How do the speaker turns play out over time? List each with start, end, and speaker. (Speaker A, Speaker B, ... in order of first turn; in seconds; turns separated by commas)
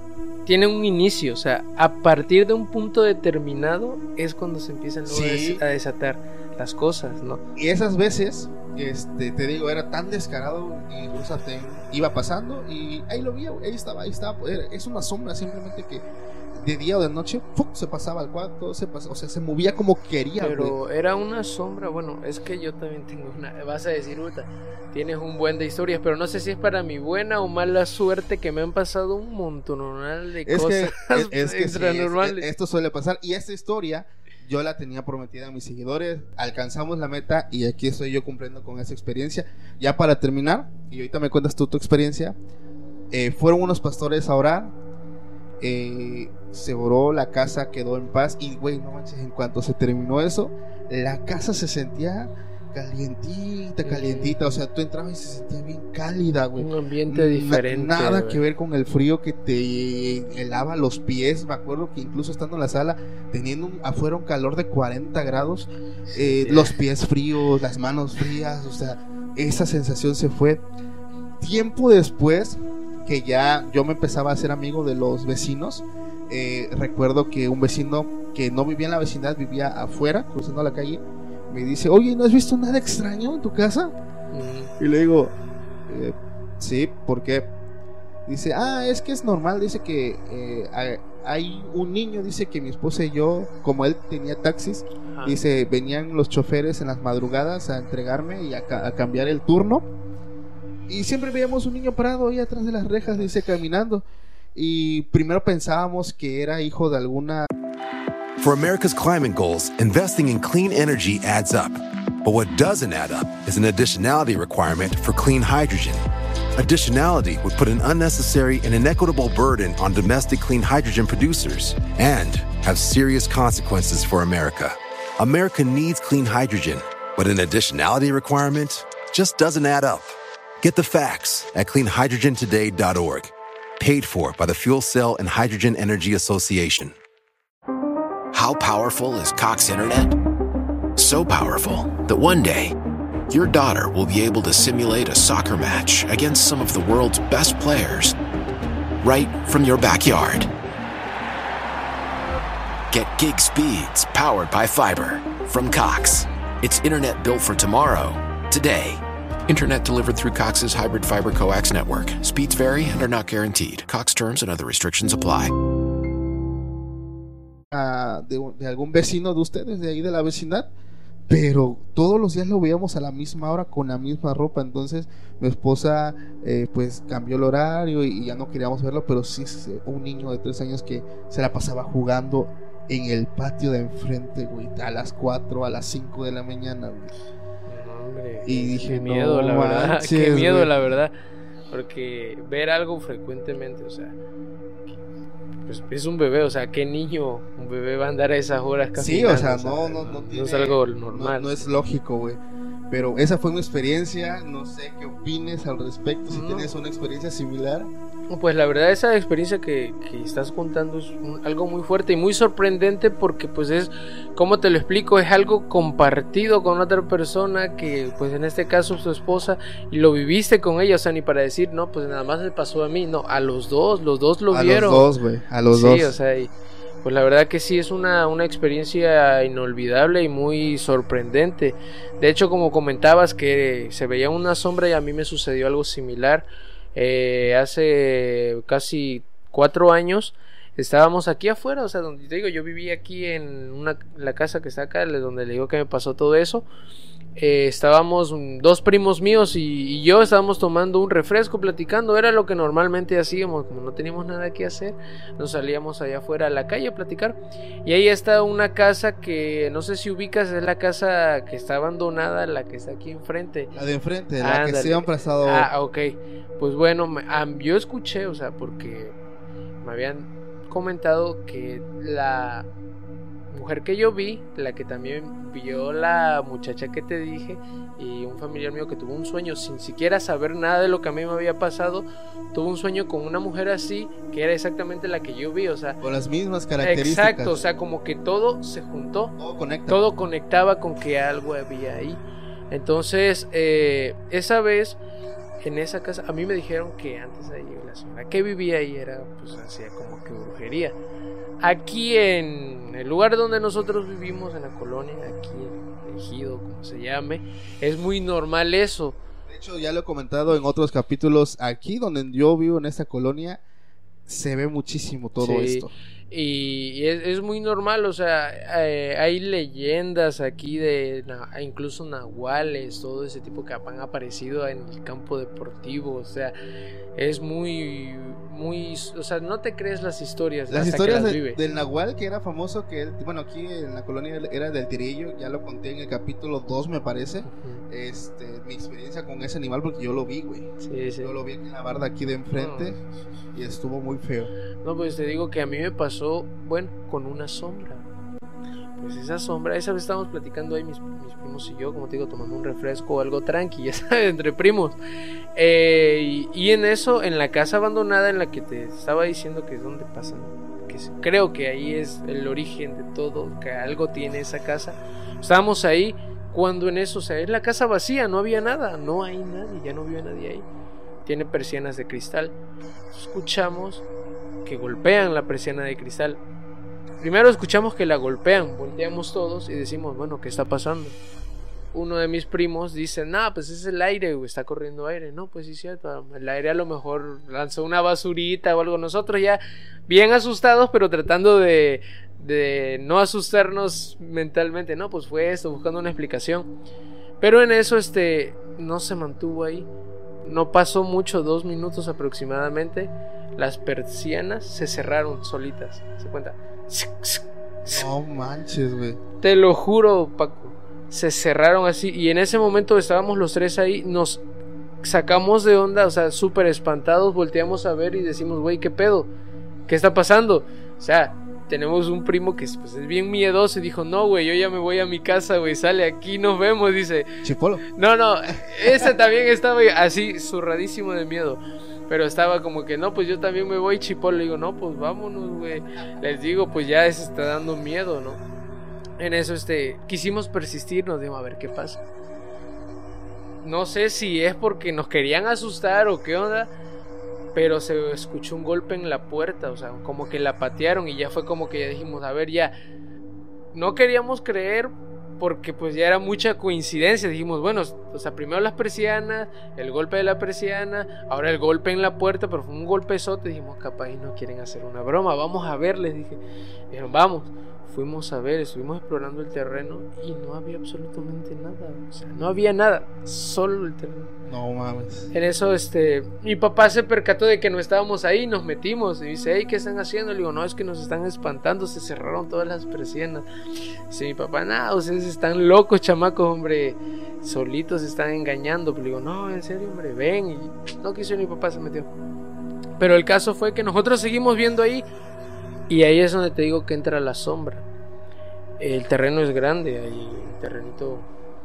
Speaker A: 0.5-7.4, Speaker B: 5.1-5.6, Speaker B: 7.6-20.8, Speaker A: 20.4-32.5, Speaker B: 30.5-42.4, Speaker B: 43.1-44.7, Speaker B: 45.6-70.6, Speaker A: 53.8-54.4, Speaker A: 56.6-58.4, Speaker A: 66.1-66.8, Speaker B: 71.4-83.9, Speaker A: 84.3-84.7, Speaker B: 84.8-85.3, Speaker B: 85.9-87.5, Speaker B: 88.3-99.9, Speaker B: 100.9-104.0, Speaker A: 103.0-103.3, Speaker B: 104.5-107.5, Speaker C: 108.4-116.0, Speaker C: 116.6-137.0, Speaker D: 138.3-140.2, Speaker D: 141.0-142.8, Speaker D: 143.3-148.2, Speaker D: 149.0-150.5, Speaker D: 152.9-165.5, Speaker B: 167.7-170.7, Speaker B: 171.3-187.1, Speaker A: 187.7-191.1, Speaker B: 188.4-190.7, Speaker A: 191.7-194.2, Speaker A: 195.7-201.5, Speaker B: 198.9-207.9, Speaker A: 206.3-206.7, Speaker A: 208.3-225.1, Speaker B: 224.5-226.2, Speaker A: 225.7-226.5, Speaker A: 227.0-246.7, Speaker A: 247.4-263.7, Speaker B: 263.7-265.7, Speaker A: 264.4-269.1, Speaker A: 269.8-272.7, Speaker A: 273.5-286.0, Speaker B: 286.0-287.6, Speaker A: 286.8-289.4, Speaker B: 289.4-290.0, Speaker A: 289.9-295.0, Speaker A: 295.6-301.0, Speaker A: 301.6-309.2, Speaker B: 309.5-313.6, Speaker B: 314.3-315.9, Speaker A: 315.4-326.5, Speaker A: 327.2-331.6, Speaker B: 330.7-340.7, Speaker A: 337.5-337.8, Speaker A: 340.8-341.3, Speaker B: 341.2-343.0, Speaker A: 342.5-343.4, Speaker B: 343.5-344.5, Speaker A: 344.8-348.0, Speaker A: 349.0-355.0, Speaker A: 355.6-370.7, Speaker A: 371.3-372.5, Speaker A: 373.1-374.1, Speaker A: 374.6-376.4, Speaker A: 377.2-381.2, Speaker A: 381.9-396.7, Speaker A: 397.4-399.9, Speaker A: 400.4-408.1, Speaker B: 407.9-409.2, Speaker A: 409.4-414.4, Speaker A: 415.0-419.3, Speaker A: 419.9-427.4, Speaker B: 427.4-427.8, Speaker A: 428.0-438.4, Speaker B: 428.8-429.1, Speaker A: 439.2-442.0, Speaker A: 443.6-446.7, Speaker A: 447.6-452.7, Speaker A: 453.7-474.3, Speaker B: 474.5-475.3, Speaker A: 475.3-483.5, Speaker A: 484.1-492.1, Speaker A: 493.0-495.1, Speaker A: 495.9-497.9, Speaker A: 498.8-501.3